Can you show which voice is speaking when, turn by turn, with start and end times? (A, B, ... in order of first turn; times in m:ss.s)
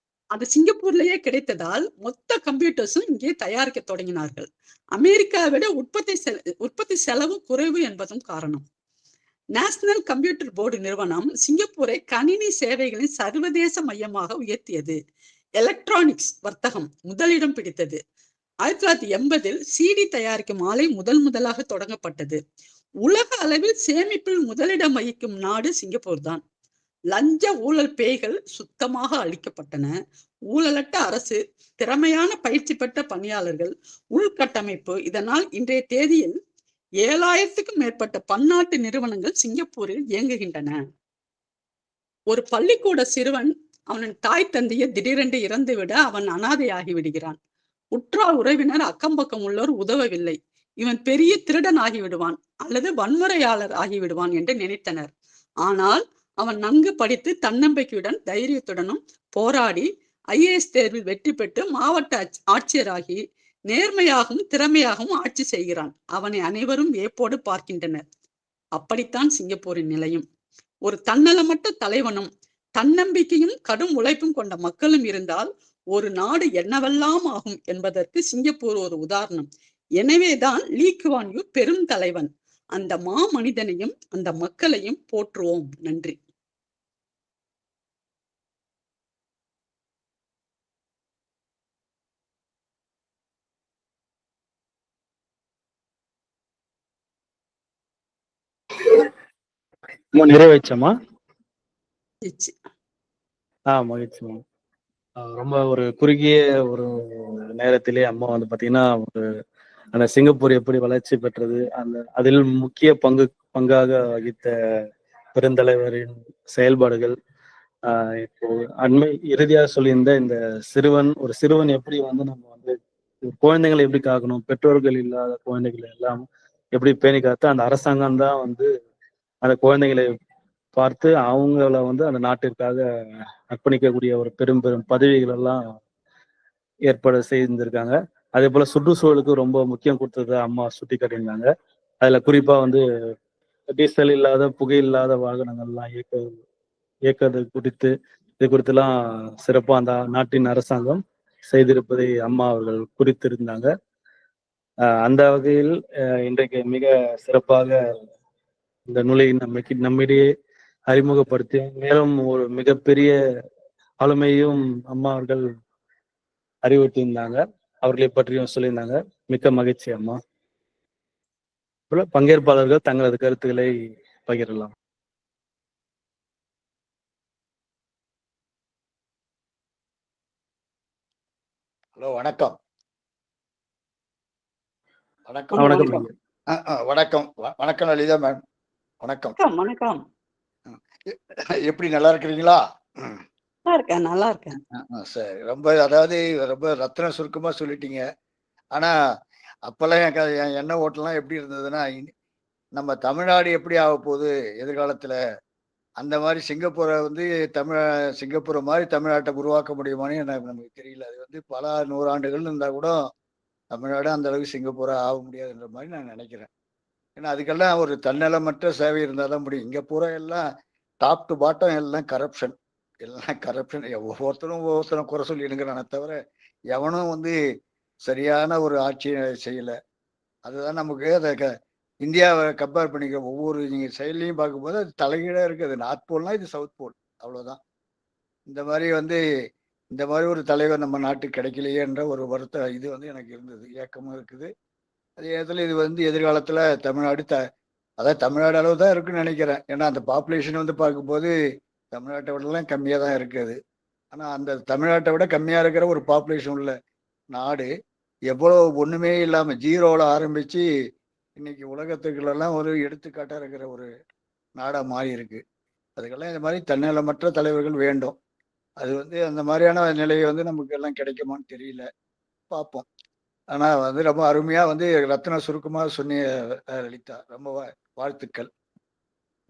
0:00.4-0:08.6 A
0:09.6-0:15.0 A
0:15.6-0:18.0 A
0:18.6-0:22.4 A
0:23.0-0:26.4 A
0:27.1-0:29.9 A
0:30.5-0:36.4 A
0:37.0-0:40.8 A
0:42.3-0:47.4 A
0:47.9-0:55.1 A
0:55.6-1:08.0 A
1:08.8-1:10.2 A
1:10.9-1:19.5 A
1:20.0-1:26.2 A
1:40.2-1:40.9 B
1:42.2-1:42.5 A
1:43.7-1:44.4 B
1:45.2-1:49.2 B
1:49.9-1:54.5 B
1:55.4-1:57.2 B
1:57.9-2:02.8 B
2:03.3-2:06.2 B
2:06.8-2:08.7 B
2:09.4-2:10.1 B
2:10.8-2:12.8 B
2:13.5-2:15.6 B
2:16.9-2:21.5 B
2:22.0-2:22.8 B
2:23.7-2:26.3 B
2:27.1-2:28.9 B
2:29.4-2:33.7 B
2:35.0-2:37.8 B
2:38.9-2:40.3 B
2:40.9-2:43.2 B
2:44.0-2:45.4 B
2:46.6-2:50.2 B
2:51.9-2:53.7 B
2:54.2-2:54.7 B
3:02.0-3:02.6 C
3:05.3-3:06.0 C
3:05.5-3:06.0 A
3:05.6-3:06.1 B
3:06.5-3:08.4 C
3:09.0-3:09.4 C
3:09.4-3:10.0 A
3:10.7-3:13.2 C
3:13.7-3:14.6 A
3:14.9-3:18.0 C
3:19.7-3:22.1 C
3:22.8-3:25.2 C
3:26.0-3:33.0 C
3:33.7-3:36.5 C
3:37.2-3:40.4 C
3:41.0-3:46.2 C
3:46.7-3:47.4 C
3:48.0-3:49.8 C
3:50.4-3:51.5 C
3:52.0-3:57.6 C
3:58.5-3:59.2 C
3:59.9-4:04.5 C
4:05.2-4:07.4 C
4:08.0-4:11.3 C
4:11.9-4:13.6 C
4:14.1-4:16.8 C
4:17.3-4:17.7 C
4:18.3-4:20.6 C
4:21.4-4:23.9 C
4:24.6-4:25.4 C
4:26.0-4:28.2 C
4:28.8-4:31.9 C
4:32.5-4:32.9 C
4:33.5-4:38.5 C